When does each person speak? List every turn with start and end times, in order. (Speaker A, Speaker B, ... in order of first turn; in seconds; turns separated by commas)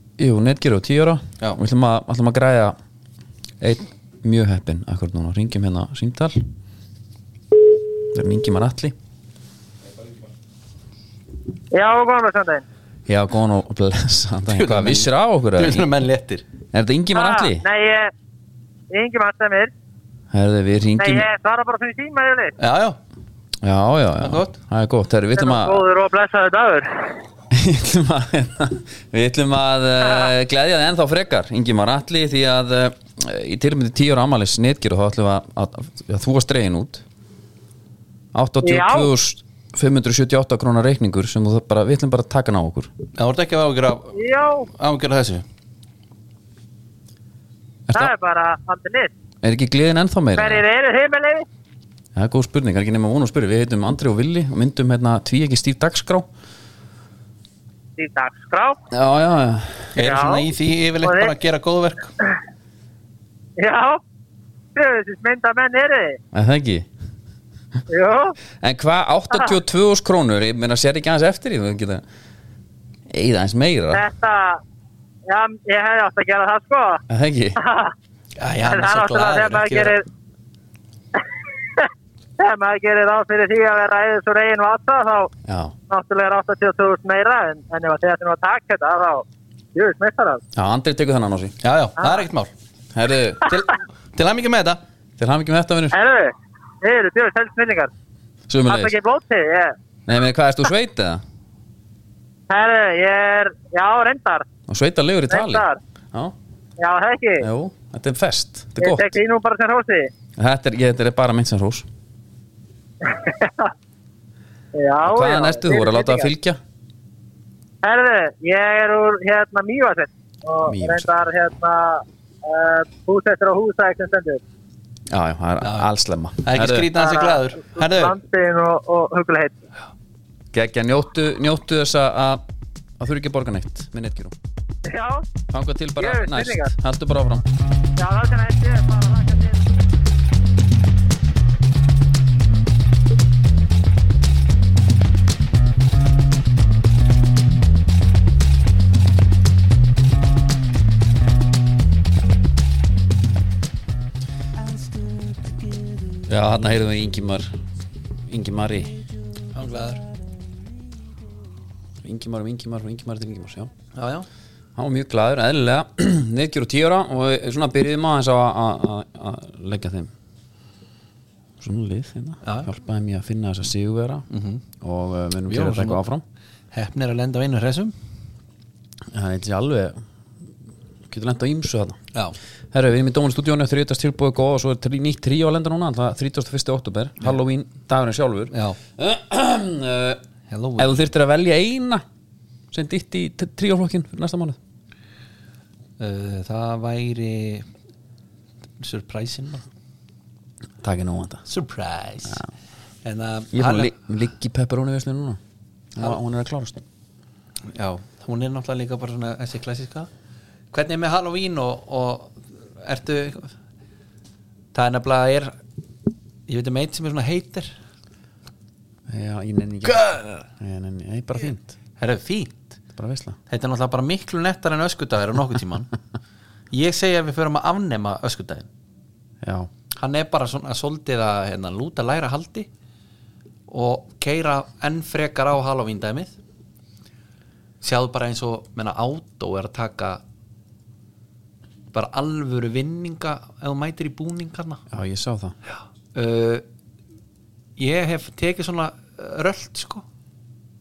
Speaker A: 0.2-2.8, Speaker A: 3.6-6.4, Speaker A: 8.1-8.9, Speaker B: 11.7-12.6, Speaker A: 13.1-15.9, Speaker C: 14.5-16.4, Speaker A: 16.7-17.6, Speaker B: 17.1-18.1, Speaker B: 18.9-19.7, Speaker A: 20.3-21.3, Speaker B: 21.0-22.5, Speaker C: 22.6-23.0, Speaker A: 23.6-25.8, Speaker C: 24.2-24.6, Speaker B: 25.4-27.1, Speaker A: 27.5-37.0, Speaker A: 38.3-42.9, Speaker B: 38.6-39.1, Speaker C: 43.1-45.5, Speaker B: 44.1-44.7, Speaker B: 47.9-49.1, Speaker A: 49.4-50.6, Speaker B: 50.4-51.5, Speaker A: 52.1-56.3, Speaker B: 58.0-58.8, Speaker A: 58.9-60.0, Speaker C: 60.0-62.1, Speaker B: 60.0-60.5, Speaker B: 61.0-61.3, Speaker B: 63.6-64.0, Speaker B: 64.8-66.2, Speaker A: 66.3-66.9, Speaker B: 67.9-68.4, Speaker A: 68.6-72.0, Speaker A: 73.1-74.1, Speaker B: 73.9-74.6, Speaker B: 75.3-77.0, Speaker A: 77.1-77.6, Speaker B: 77.6-77.9, Speaker C: 78.4-80.0, Speaker B: 78.6-80.0, Speaker B: 82.4-85.3, Speaker A: 85.5-85.8, Speaker B: 85.9-90.4, Speaker A: 90.5-91.6, Speaker C: 91.6-92.5, Speaker A: 92.9-93.6, Speaker C: 93.5-94.8, Speaker A: 95.2-96.0, Speaker B: 95.9-97.9, Speaker A: 98.5-99.0, Speaker B: 98.7-99.8, Speaker A: 100.1-101.2, Speaker B: 102.5-104.5, Speaker A: 104.7-106.3, Speaker B: 105.3-105.8, Speaker B: 106.8-107.5, Speaker A: 107.4-109.2, Speaker B: 108.8-110.1, Speaker A: 110.4-111.9, Speaker B: 113.0-113.7, Speaker B: 114.8-116.3, Speaker A: 115.0-116.6, Speaker B: 117.8-124.4, Speaker A: 120.7-121.1, Speaker A: 125.1-126.9, Speaker C: 125.6-125.9, Speaker C: 126.4-128.1, Speaker B: 126.9-129.6, Speaker A: 130.5-132.4, Speaker A: 133.0-134.3, Speaker B: 134.9-135.2, Speaker A: 135.5-137.4, Speaker B: 136.0-136.7, Speaker B: 138.0-139.8, Speaker A: 156.3-157.5, Speaker A: 158.3-159.1, Speaker C: 159.5-160.0, Speaker A: 162.0-163.7, Speaker C: 163.9-164.3, Speaker A: 164.8-170.1, Speaker A: 171.6-174.3, Speaker C: 172.4-172.7, Speaker C: 174.3-174.6, Speaker A: 174.8-176.2, Speaker C: 175.5-176.0, Speaker C: 176.7-177.9, Speaker A: 179.1-180.0, Speaker A: 181.1-182.0, Speaker A: 182.7-190.2, Speaker C: 188.5-188.8, Speaker C: 190.5-191.1, Speaker A: 190.8-192.0, Speaker A: 192.7-194.6, Speaker C: 196.0-197.7, Speaker C: 198.8-199.7, Speaker A: 200.8-201.4, Speaker C: 201.5-202.4, Speaker C: 203.0-204.0, Speaker A: 203.5-205.4, Speaker A: 205.9-206.8, Speaker C: 207.7-210.1, Speaker C: 210.7-213.5, Speaker C: 214.7-215.6, Speaker C: 216.5-217.7, Speaker A: 219.1-221.7, Speaker C: 219.8-220.5, Speaker C: 222.0-222.7, Speaker A: 222.9-223.4, Speaker C: 223.5-225.9, Speaker C: 226.7-228.7, Speaker A: 229.4-229.7, Speaker C: 230.0-232.7, Speaker C: 233.7-236.4, Speaker C: 237.8-240.2, Speaker C: 241.9-244.8, Speaker A: 244.9-245.6, Speaker C: 245.7-246.6, Speaker C: 247.8-250.1